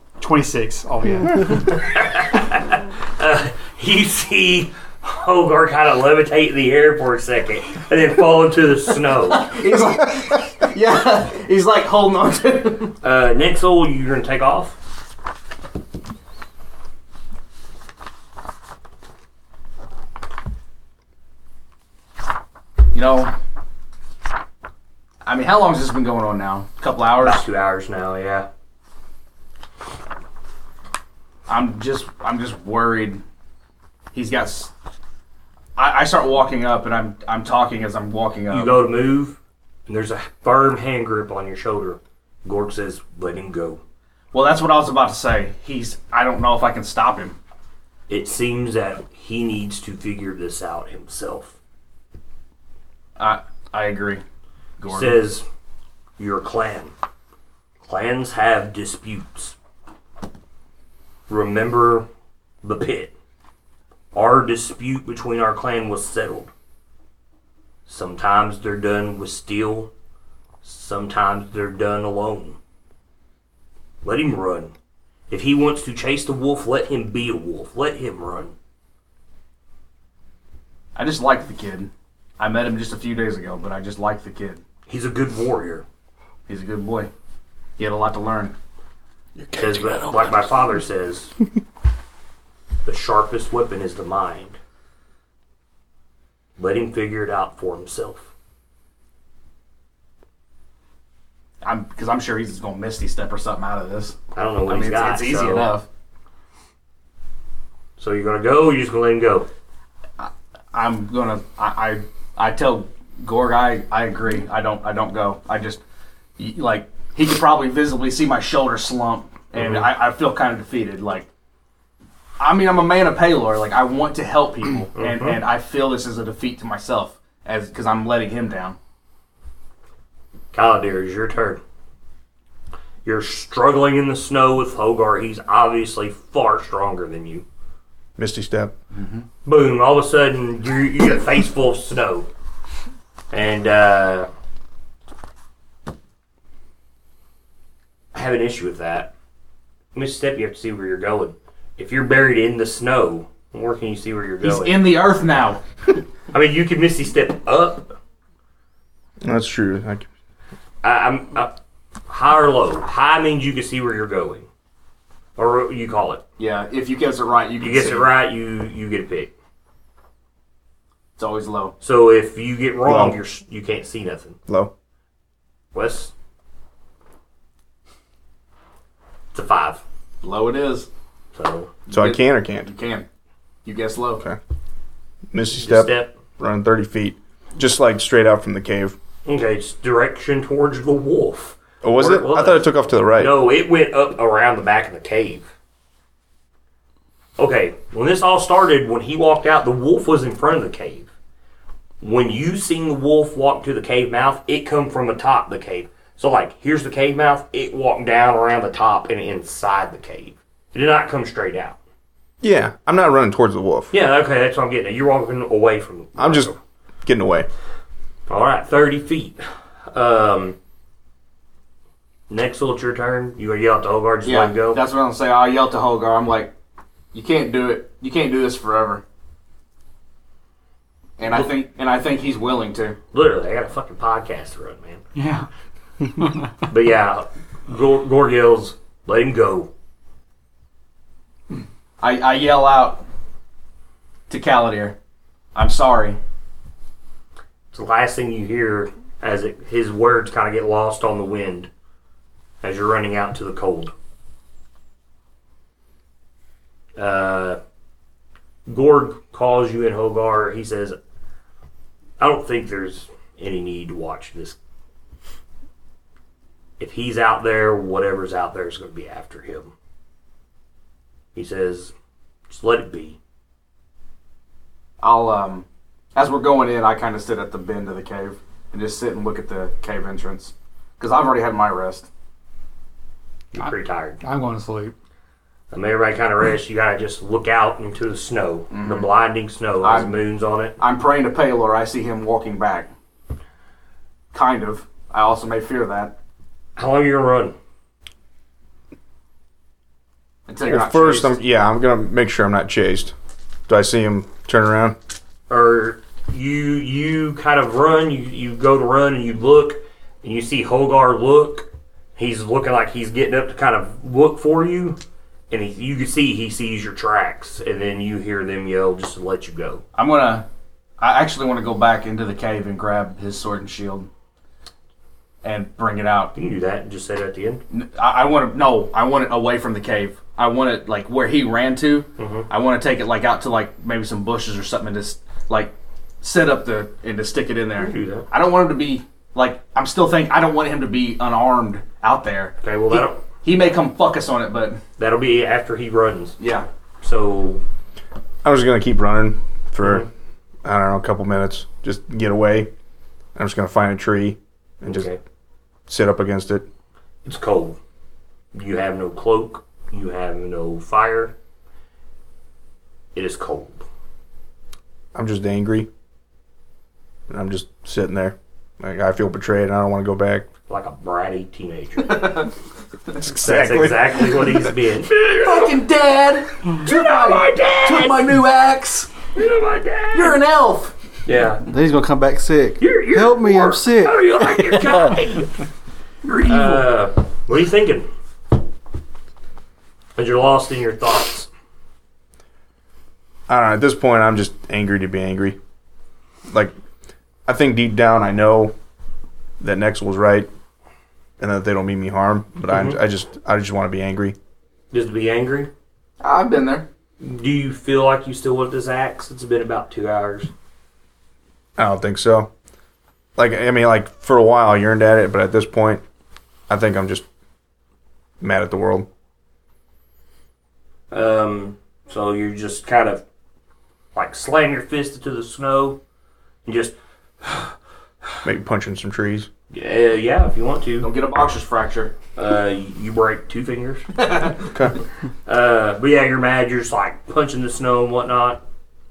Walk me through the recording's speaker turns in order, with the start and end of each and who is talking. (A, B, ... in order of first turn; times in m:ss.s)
0:00.2-0:01.8 A
0:01.6-0:09.6 B
0:09.3-0:12.9 C
0:13.0-0:14.8 B
0:22.9-0:23.3 C
0:25.2-0:27.4 C
0:27.2-0:28.5 B
0:31.5-0:33.2 C
0:34.1-0:34.7 C
0:35.8-0:38.8 C
0:38.5-0:43.8 B
0:44.3-0:47.4 C
0:48.1-0:51.6 B
0:53.2-0:54.2 C
0:54.8-0:55.2 C
0:54.9-0:55.4 B
0:56.2-0:56.9 B
0:57.8-0:59.6 B
1:01.3-1:02.1 B
1:02.6-1:03.1 B
1:04.1-1:06.5 B
1:07.8-1:09.9 B
1:10.6-1:12.6 B
1:14.0-1:14.7 B
1:15.3-1:18.5 B
1:20.9-1:24.6 C
1:24.9-1:25.8 B
1:26.5-1:27.1 C
1:27.8-1:28.5 C
1:29.4-1:30.1 D
1:29.5-1:31.3 B
1:32.8-1:34.6 B
1:36.6-1:38.3 B
1:41.6-1:45.8 C
1:44.3-1:45.7 B
1:48.0-1:49.5 B
1:50.2-1:55.8 C
1:56.4-2:01.3 C
1:59.6-1:59.9 B
2:02.4-2:08.8 C
2:04.9-2:05.4 B
2:10.5-2:11.6 B
2:13.0-2:17.4 B
2:18.2-2:18.7 D
2:18.9-2:19.2 C
2:19.4-2:22.3 B
2:23.3-2:24.3 B
2:28.1-2:29.1 B
2:29.9-2:34.8 B
2:34.4-2:35.6 C
2:36.3-2:37.9 B
2:39.2-2:40.0 D
2:40.8-2:41.5 B
2:42.1-2:44.5 B
2:45.4-2:46.2 B
2:46.4-2:48.1 C
2:47.6-2:49.3 B
2:51.2-2:51.7 C
2:51.8-2:54.4 B
2:52.8-2:53.2 D
2:54.5-2:54.7 D
2:55.7-2:56.1 B
2:59.3-2:59.8 B
3:00.2-3:00.9 C
3:01.3-3:01.7 B
3:01.9-3:03.0 C
3:01.9-3:02.7 D
3:03.6-3:04.2 C
3:05.3-3:09.0 D
3:05.5-3:06.1 B
3:09.2-3:15.5 B
3:11.8-3:13.4 D
3:17.4-3:21.1 B
3:22.0-3:31.8 B
3:32.4-3:33.9 D
3:33.9-3:36.6 B
3:36.2-3:36.5 D
3:37.0-3:37.5 D
3:38.3-3:40.6 B
3:42.3-3:44.8 B
3:44.2-3:46.5 C
3:47.1-3:49.0 C
3:51.2-3:53.0 C
3:53.1-3:55.0 B
3:55.1-3:55.5 A
3:56.2-3:56.5 A
3:56.7-3:59.7 B
4:02.0-4:03.0 C
4:04.3-4:05.0 C
4:05.5-4:06.2 C
4:07.7-4:11.7 B
4:12.6-4:13.9 B
4:17.0-4:17.6 B
4:18.7-4:21.0 B
4:22.2-4:24.6 B
4:26.8-4:29.7 B
4:31.3-4:31.9 B
4:32.5-4:33.2 B
4:35.0-4:42.1 C
4:43.5-4:44.2 B
4:44.2-4:44.9 A
4:45.7-4:50.8 B
4:48.7-4:49.1 C
4:49.8-4:50.1 C
4:50.8-4:52.9 C
4:54.3-4:56.1 C
4:56.8-4:57.6 B
5:00.5-5:01.4 C
5:00.7-5:03.1 D
5:03.7-5:05.0 D
5:05.5-5:15.0 B
5:15.5-5:19.8 B
5:19.9-5:20.4 C
5:21.0-5:24.1 C
5:25.4-5:26.3 C
5:26.3-5:27.6 B
5:27.7-5:44.8 C
5:32.2-5:32.5 B
5:37.8-5:38.3 B
5:42.6-5:43.2 B
5:45.0-5:46.4 B
5:46.4-5:46.7 C
5:47.0-5:47.6 B
5:48.4-5:50.1 D
5:49.8-5:50.1 B
5:50.6-5:52.7 D
5:53.4-5:55.1 D
5:54.8-5:55.2 B
5:55.9-5:56.6 D
5:57.2-5:57.8 B
5:58.5-6:01.3 B
6:03.1-6:03.8 B
6:05.1-6:05.9 D
6:07.3-6:10.5 D
6:10.7-6:12.5 B
6:12.1-6:12.4 C
6:13.2-6:14.7 D
6:13.4-6:15.7 B
6:15.1-6:19.1 C
6:16.6-6:18.3 B
6:19.3-6:20.4 B
6:20.1-6:20.9 C
6:21.2-6:21.6 B
6:21.6-6:25.2 E
6:22.8-6:25.6 B
6:26.3-6:28.1 B
6:30.2-6:31.5 B
6:33.5-6:35.6 D
6:37.5-6:38.7 D
6:39.6-6:40.5 D
6:41.4-6:44.4 D
6:42.7-6:43.0 B
6:44.9-6:45.7 B
6:46.2-6:46.9 C
6:47.2-6:50.5 B
6:51.8-6:52.5 D
6:53.4-6:56.0 D
6:56.7-6:57.2 D
6:58.4-6:59.1 D
7:01.1-7:03.2 B
7:04.1-7:06.0 B
7:06.6-7:07.7 B
7:08.4-7:09.5 D
7:09.7-7:11.1 B
7:11.0-7:12.2 C
7:12.4-7:14.1 B
7:14.2-7:14.6 C
7:14.7-7:15.0 D
7:15.4-7:18.6 B